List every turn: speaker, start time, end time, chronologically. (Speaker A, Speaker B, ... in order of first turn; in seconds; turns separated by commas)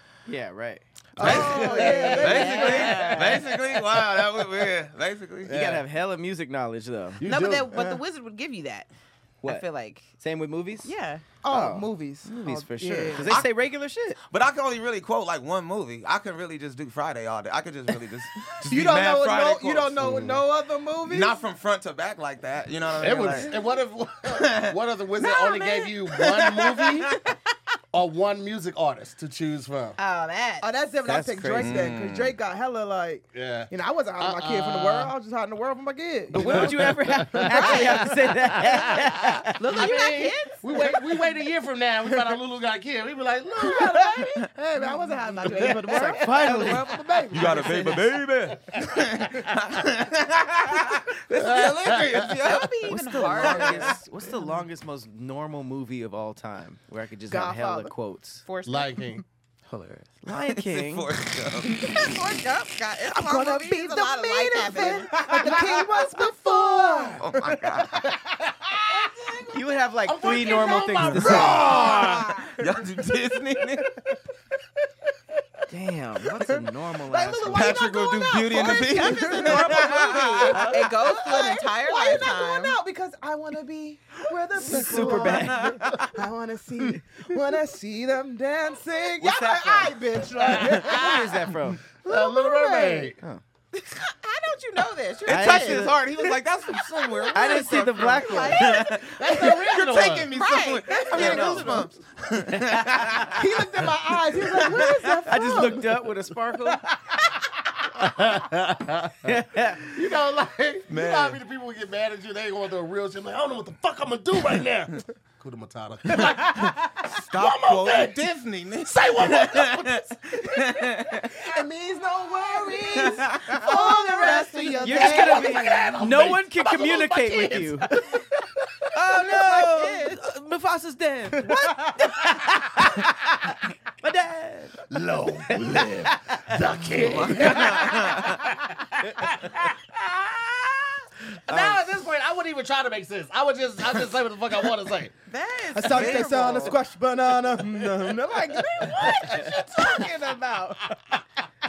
Speaker A: 0.2-3.5, Speaker B: 1.2-3.4, Speaker C: 1.2-5.6, Speaker D: 1.2-3.4, Speaker E: 1.2-2.2, Speaker E: 5.4-5.8, Speaker A: 5.5-7.2, Speaker E: 7.2-7.8, Speaker B: 7.2-8.9, Speaker B: 9.4-10.1, Speaker A: 10.2-10.9, Speaker B: 10.8-11.2, Speaker D: 11.4-13.4, Speaker A: 11.5-14.2, Speaker C: 14.3-20.4, Speaker D: 18.6-21.4, Speaker E: 20.0-20.4, Speaker C: 21.0-23.5, Speaker E: 23.0-27.2, Speaker C: 24.3-24.8, Speaker B: 25.2-26.0, Speaker C: 26.1-27.2, Speaker E: 27.9-30.0, Speaker B: 30.0-30.7, Speaker D: 30.6-38.1, Speaker A: 31.0-31.9, Speaker C: 31.6-32.4, Speaker E: 33.3-35.1, Speaker E: 36.3-37.8, Speaker A: 36.4-39.6, Speaker B: 37.6-38.0, Speaker E: 38.5-44.3, Speaker D: 39.6-41.4, Speaker B: 39.7-40.6, Speaker D: 42.1-42.4, Speaker D: 43.6-48.1, Speaker E: 45.4-47.0, Speaker A: 45.7-46.9, Speaker C: 47.3-52.8, Speaker E: 48.6-49.6, Speaker E: 51.3-52.6, Speaker B: 52.4-53.9, Speaker A: 52.9-58.4, Speaker C: 53.4-53.9, Speaker D: 57.3-57.9, Speaker B: 58.5-59.0, Speaker E: 58.6-59.2, Speaker A: 59.7-61.1, Speaker C: 60.3-62.2, Speaker B: 61.8-65.5, Speaker D: 63.0-67.8, Speaker C: 65.2-65.8, Speaker E: 66.1-67.3, Speaker C: 67.2-68.0, Speaker E: 67.9-69.3, Speaker A: 69.5-71.6, Speaker E: 70.0-72.4, Speaker C: 71.1-71.7, Speaker D: 71.4-72.0, Speaker B: 71.6-72.5, Speaker C: 72.5-74.0, Speaker A: 75.7-77.9, Speaker D: 77.1-91.2, Speaker C: 77.5-80.7, Speaker B: 78.0-82.8, Speaker A: 84.6-85.8, Speaker C: 84.8-86.2, Speaker A: 89.2-90.0, Speaker B: 89.2-90.8, Speaker E: 90.4-93.2, Speaker A: 90.6-91.8, Speaker D: 92.1-93.1, Speaker B: 93.7-99.6, Speaker C: 95.2-103.7, Speaker A: 95.3-96.0, Speaker A: 97.3-98.7, Speaker E: 99.0-100.3, Speaker B: 100.3-101.9, Speaker D: 100.9-101.6, Speaker A: 101.1-101.8, Speaker D: 103.3-106.1, Speaker C: 104.4-105.2, Speaker A: 105.2-106.8, Speaker E: 107.9-109.3, Speaker A: 109.2-109.9, Speaker E: 109.8-118.2, Speaker C: 110.9-111.4, Speaker C: 116.4-121.4, Speaker E: 118.8-120.8, Speaker D: 121.4-126.0, Speaker C: 123.0-123.6, Speaker E: 123.7-128.2, Speaker B: 123.8-125.3, Speaker A: 124.8-127.9, Speaker C: 128.9-130.1, Speaker B: 129.1-130.2, Speaker A: 129.1-133.1, Speaker D: 131.5-131.9, Speaker A: 134.0-134.8, Speaker E: 134.9-140.8, Speaker A: 135.5-136.6, Speaker C: 137.0-138.5, Speaker A: 139.1-139.3, Speaker E: 141.4-145.1, Speaker A: 141.5-141.8, Speaker B: 145.3-146.8, Speaker D: 145.7-150.9, Speaker C: 145.9-146.6, Speaker E: 147.6-150.1